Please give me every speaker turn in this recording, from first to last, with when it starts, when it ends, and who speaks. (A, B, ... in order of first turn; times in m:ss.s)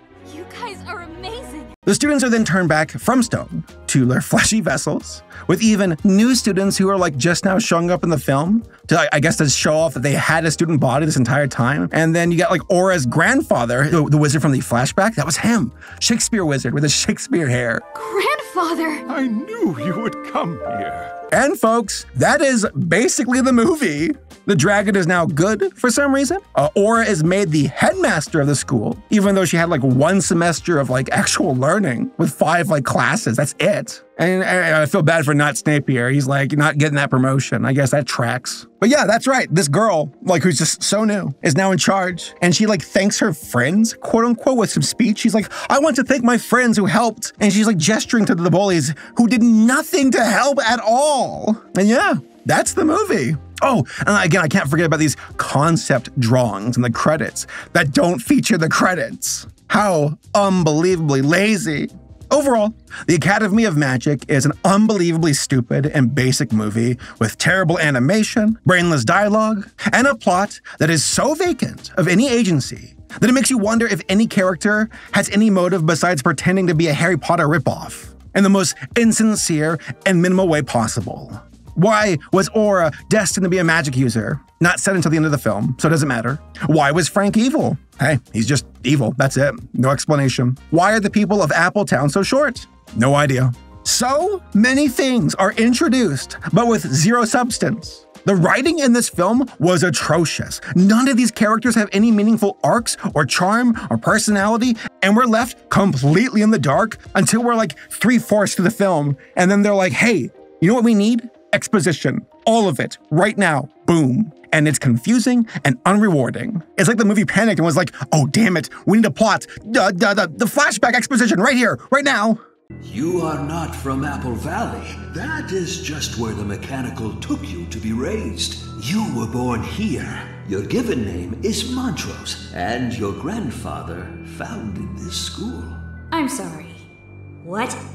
0:00.3-0:01.7 A
0:01.8-0:17.8 B
0:17.9-0:19.0 A
0:19.1-0:21.1 C
0:21.2-2:02.4 B
2:02.8-2:15.8 D
2:16.1-2:16.8 A
2:17.4-2:17.8 A